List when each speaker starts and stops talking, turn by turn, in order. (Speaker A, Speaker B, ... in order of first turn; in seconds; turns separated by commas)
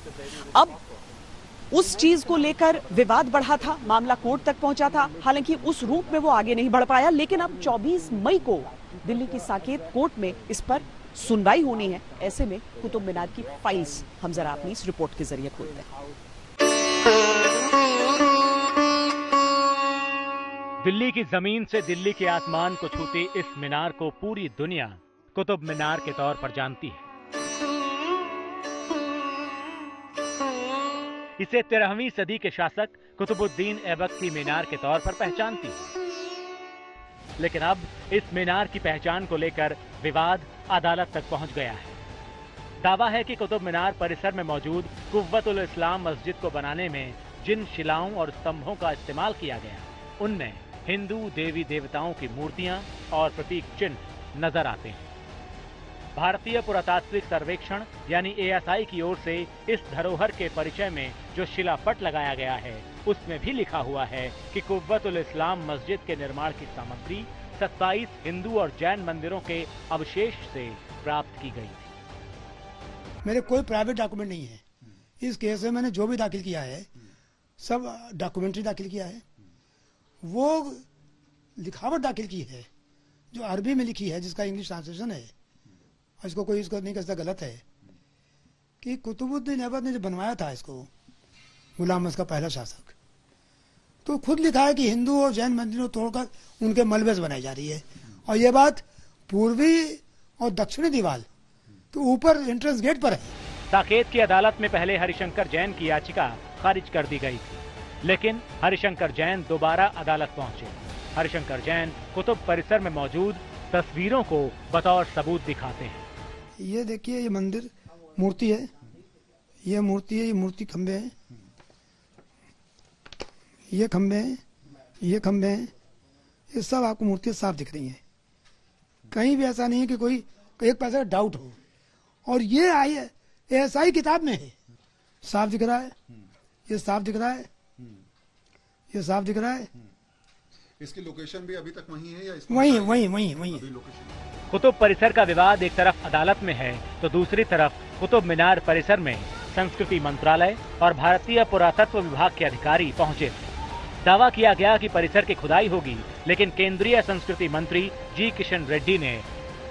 Speaker A: 0.3-0.8, Speaker A: 1.7-15.9, Speaker B: 20.8-27.1, Speaker B: 31.4-35.9, Speaker B: 37.4-42.0, Speaker B: 42.8-55.1, Speaker B: 56.1-71.9, Speaker C: 73.2-74.6, Speaker C: 75.2-76.9, Speaker C: 77.6-79.2, Speaker C: 80.2-80.8, Speaker C: 81.6-82.7, Speaker C: 83.3-85.3, Speaker C: 86.2-87.6, Speaker C: 88.8-90.9, Speaker C: 91.8-93.0, Speaker C: 94.0-101.3, Speaker C: 101.9-103.3, Speaker B: 103.7-116.0, Speaker C: 116.6-118.7, Speaker C: 119.6-121.1, Speaker C: 123.7-124.4, Speaker C: 125.0-125.7, Speaker C: 126.5-128.0, Speaker C: 129.1-131.6, Speaker C: 132.3-134.6, Speaker C: 135.2-135.9, Speaker C: 136.7-137.5, Speaker C: 138.9-139.7, Speaker D: 140.8-144.2, Speaker C: 142.5-143.7, Speaker B: 144.5-153.5, Speaker B: 154.0-159.3